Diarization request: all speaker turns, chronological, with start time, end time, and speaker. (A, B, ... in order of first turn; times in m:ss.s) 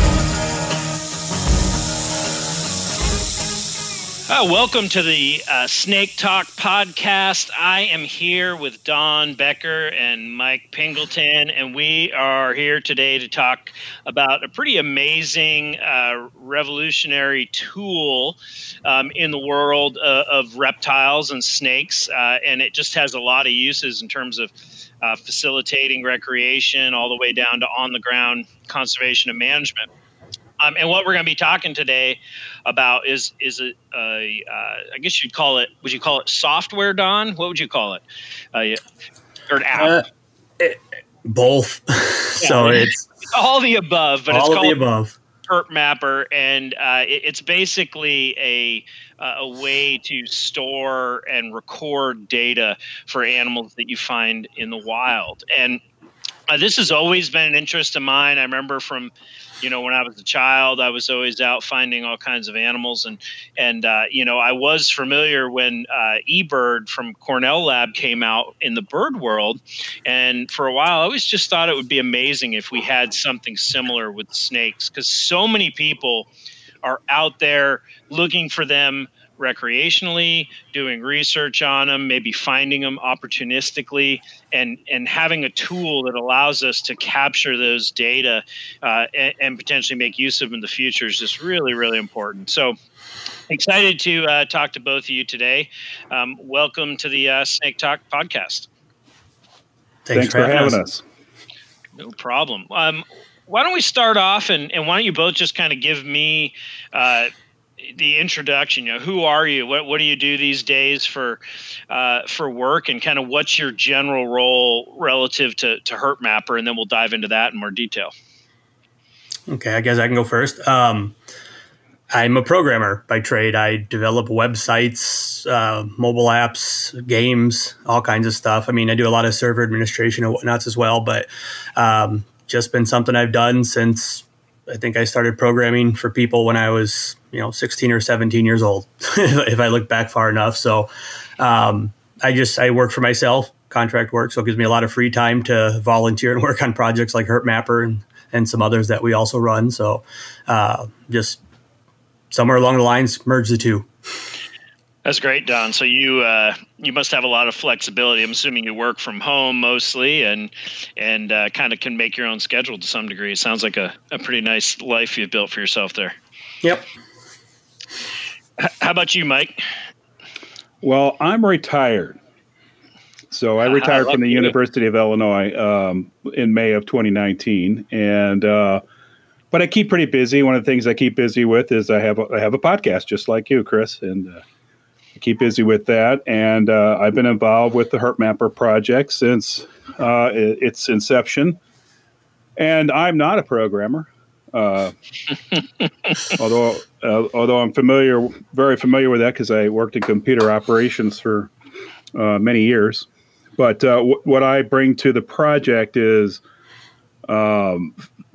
0:04.3-0:24.5 A
0:25.0-0:29.9 A
0:30.6-0:38.0 A
0:38.5-0:38.8 A
0:39.5-0:39.9 A
0:39.7-0:40.0 B
0:40.6-0:43.0 B
0:42.4-0:44.8 A
0:44.3-0:45.2 B
0:45.5-0:55.8 A
0:56.5-1:16.3 A
1:16.8-1:32.7 A
1:33.5-1:38.7 A
1:40.0-1:40.8 B
1:40.1-1:41.0 C
1:42.0-1:58.1 A
1:59.5-2:01.2 B
2:02.1-2:31.4 B
2:32.3-2:33.9 B
2:35.0-2:46.1 A
2:48.6-2:49.6 A
2:50.8-2:52.2 C
2:53.3-2:58.8 C
2:53.6-2:54.5 A
2:59.5-3:04.4 C
3:05.2-3:11.6 C
3:12.6-3:14.9 C
3:16.3-3:21.5 C
3:22.1-3:26.4 C
3:27.3-3:28.0 C